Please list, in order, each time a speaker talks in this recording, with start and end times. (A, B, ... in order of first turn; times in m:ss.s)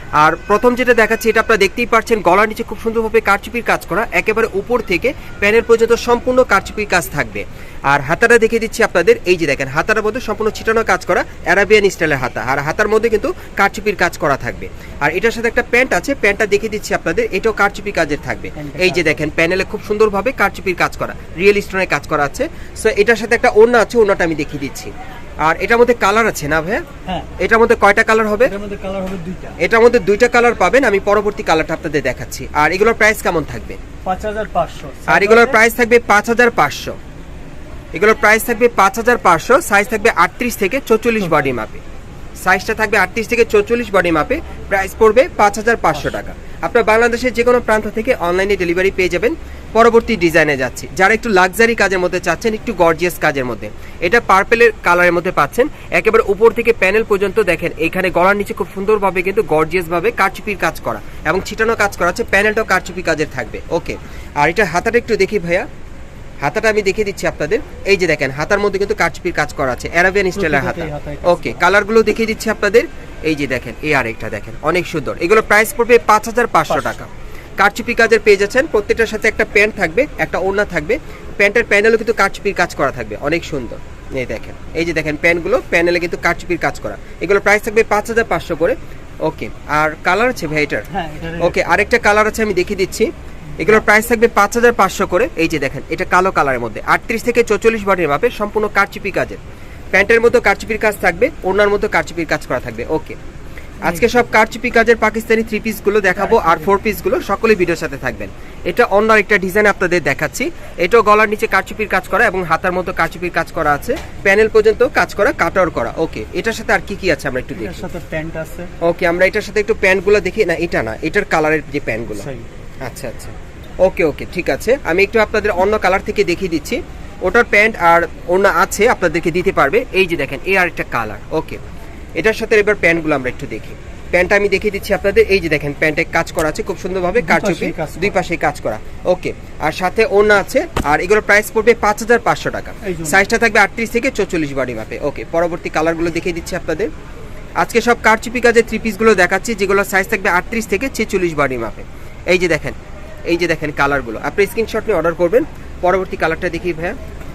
0:00.2-0:24.9 A
0:18.6-0:19.2 B
0:25.4-0:26.8 A
0:27.4-0:28.5 A
0:28.4-0:29.6 B
0:29.6-0:33.8 A
0:34.0-0:35.6 B
0:35.1-0:37.0 A
0:37.9-0:41.8 A
0:41.2-0:41.5 B
0:42.4-1:05.7 A
1:06.4-1:30.8 A
1:10.3-1:11.6 B
1:16.7-1:17.0 B
1:30.9-1:31.7 B
1:31.4-1:39.4 A
1:39.9-1:43.2 A
1:43.8-1:44.2 B
1:43.8-1:57.9 A
1:46.2-1:46.7 B
1:57.6-1:58.7 B
1:58.8-2:02.3 A
2:02.2-2:02.5 B
2:02.8-2:11.6 A
2:12.2-2:26.9 A
2:17.2-2:18.2 B
2:22.8-2:23.2 B
2:27.6-2:32.8 A
2:33.3-2:37.0 A